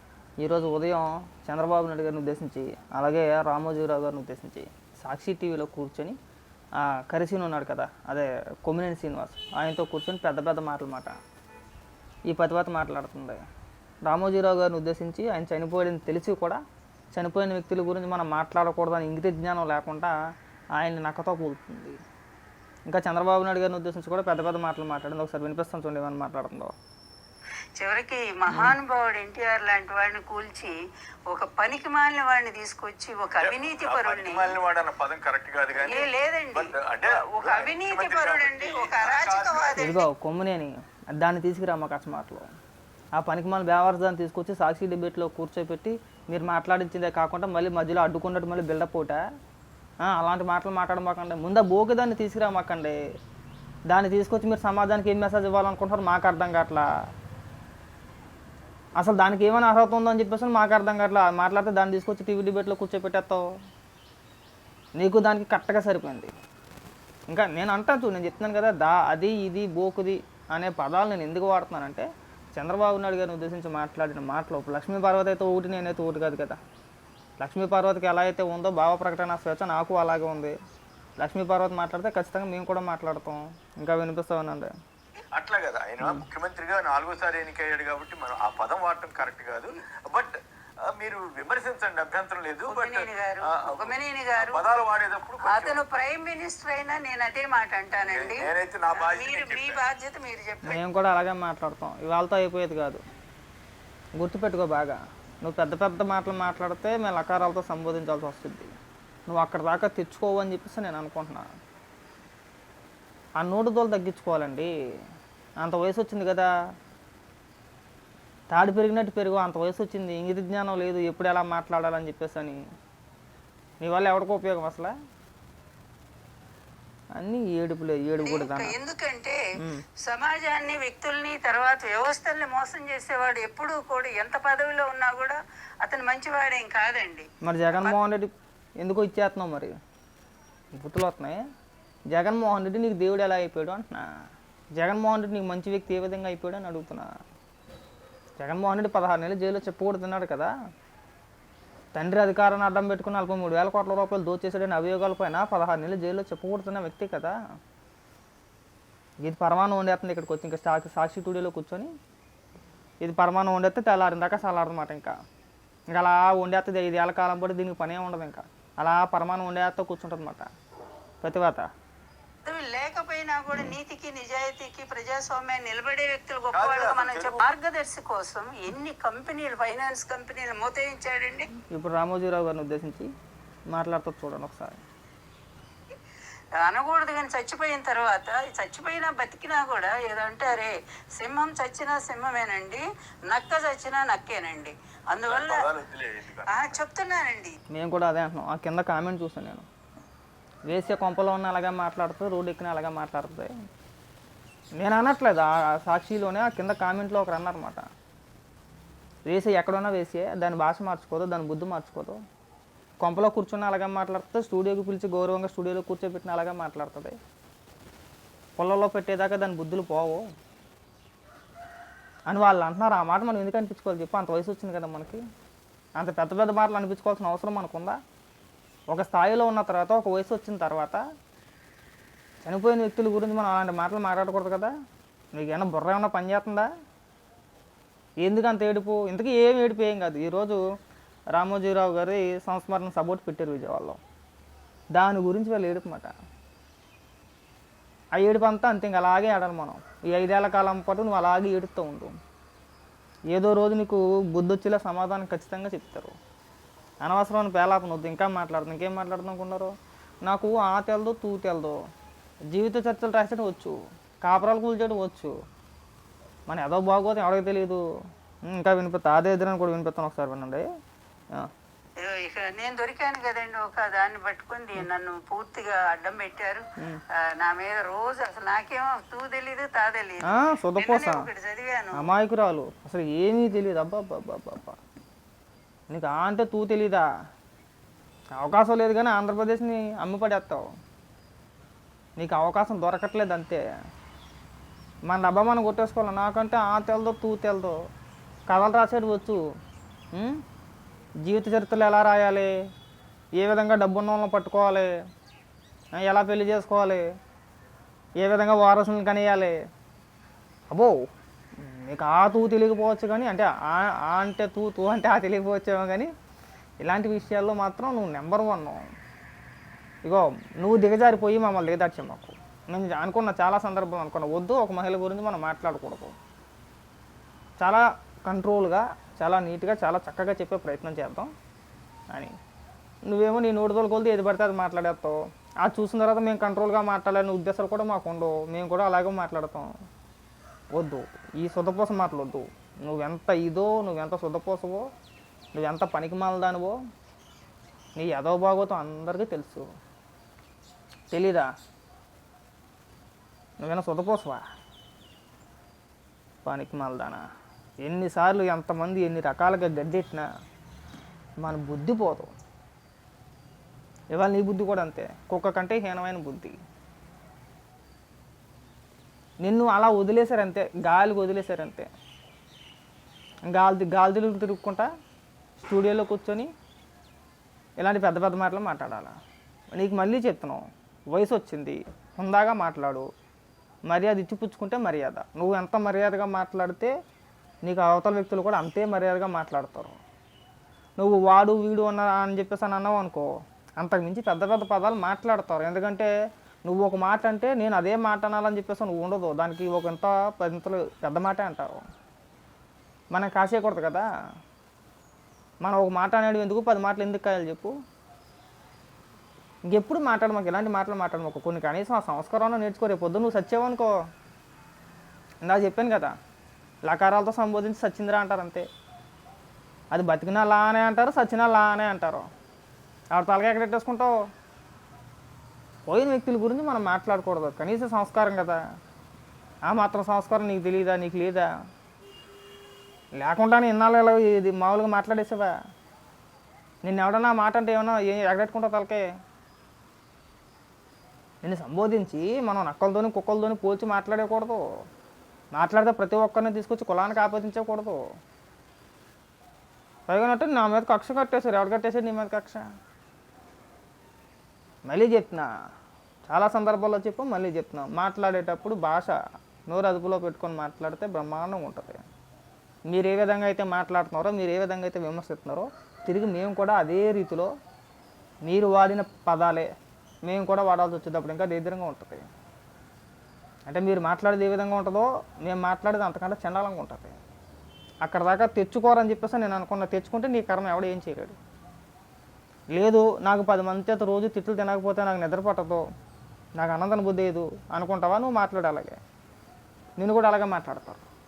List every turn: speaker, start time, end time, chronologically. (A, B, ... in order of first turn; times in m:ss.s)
0:00.4-0:06.2 A
0:06.8-0:11.2 A
0:12.3-0:13.4 A
0:14.0-0:16.6 A
0:17.1-0:20.1 A
0:20.8-0:22.0 A
0:22.9-0:26.7 A
0:27.8-0:30.8 B
0:28.5-0:28.7 A
0:31.3-0:34.6 B
0:33.4-0:39.9 C
0:35.8-0:40.1 B
0:39.8-0:42.4 A
0:43.2-0:49.2 A
0:50.0-0:53.0 A
0:53.9-0:56.9 A
0:59.0-1:03.5 A
1:05.0-1:06.3 A
1:07.3-1:16.6 A
1:17.4-1:20.6 A
1:21.2-1:24.7 A
1:25.3-1:35.8 C
1:32.7-1:34.6 B
1:35.4-1:40.8 B
1:38.1-1:39.8 C
1:40.6-1:43.0 A
1:44.2-1:48.7 A
1:49.3-1:51.5 A
1:53.4-1:54.7 A
1:55.6-1:56.5 A
1:58.5-2:02.6 A
2:03.8-2:04.9 A
2:07.2-2:08.7 A
2:08.2-2:09.4 B
2:10.0-2:18.0 B
2:17.4-2:19.8 A
2:20.7-2:21.4 A
2:22.1-2:24.1 A
2:24.8-2:27.1 A
2:28.4-2:30.5 A
2:31.9-2:37.3 A
2:39.2-2:41.9 A
2:43.0-2:45.1 A
2:45.9-2:50.5 A
2:51.2-2:51.7 A
2:52.4-3:01.5 B
2:56.5-2:57.4 C
3:01.7-3:03.1 A
3:03.7-3:04.8 A
3:06.6-3:15.7 B
3:15.3-3:16.8 C
3:16.5-3:17.6 B
3:17.7-3:19.7 A
3:20.7-3:23.5 A
3:24.8-3:27.8 A
3:29.3-3:32.2 A
3:33.0-3:37.2 A
3:38.6-3:40.2 A
3:42.3-3:45.2 A
3:46.0-3:48.0 A
3:48.9-3:51.0 A
3:52.4-3:54.7 A
3:55.3-3:56.7 A
3:58.2-4:00.6 A
4:01.3-4:04.0 A
4:04.9-4:06.1 A
4:08.2-4:12.1 A
4:13.3-4:16.1 A
4:17.0-4:19.7 A
4:20.2-4:21.8 A
4:22.5-4:25.4 A
4:26.5-4:27.8 A
4:28.5-4:30.6 A
4:32.0-4:36.6 B
4:37.2-4:42.0 B
4:40.2-4:41.3 A
4:41.9-4:44.8 A
4:45.9-4:47.0 A
4:48.4-4:50.7 A
4:52.2-4:53.6 A
4:55.1-4:57.8 A
4:58.5-4:59.4 A
5:00.1-5:00.4 A
5:01.2-5:02.5 A
5:03.4-5:04.9 A
5:06.0-5:07.0 A
5:08.2-5:09.6 A
5:10.7-5:11.0 A
5:11.6-5:16.1 A
5:16.8-5:18.8 A
5:20.0-5:26.2 A
5:27.6-5:31.3 A
5:33.1-5:39.7 A
5:40.7-5:44.9 A
5:45.5-5:46.8 A
5:48.0-5:49.7 A
5:51.1-5:51.5 A
5:53.6-5:54.4 A
5:56.4-5:57.2 A
5:57.8-6:00.3 A
6:01.4-6:02.3 A
6:04.1-6:06.6 A
6:09.4-6:11.9 A
6:13.5-6:14.9 A
6:15.6-6:16.5 A
6:17.8-6:19.2 A
6:19.7-6:23.1 A
6:23.9-6:26.9 A
6:27.6-6:30.0 A
6:31.0-6:36.1 A
6:36.6-6:41.9 A
6:43.1-6:44.1 A
6:45.6-6:47.7 A
6:49.7-6:53.9 A
6:55.4-6:56.1 A
6:56.8-6:58.7 A
6:59.9-7:02.3 A
7:03.1-7:04.1 A
7:05.9-7:08.6 A
7:09.7-7:11.5 A
7:13.2-7:15.5 A
7:16.8-7:19.1 A
7:21.4-7:24.6 A
7:25.5-7:28.0 A
7:30.1-7:32.6 A
7:34.9-7:35.5 A
7:36.3-7:39.2 A
7:39.7-7:42.0 A
7:42.9-7:47.5 A
7:48.4-7:49.7 A
7:50.2-7:52.3 A
7:53.7-7:57.2 A
7:58.0-8:01.4 A
8:02.7-8:05.9 A
8:06.6-8:09.0 A
8:10.0-8:11.0 A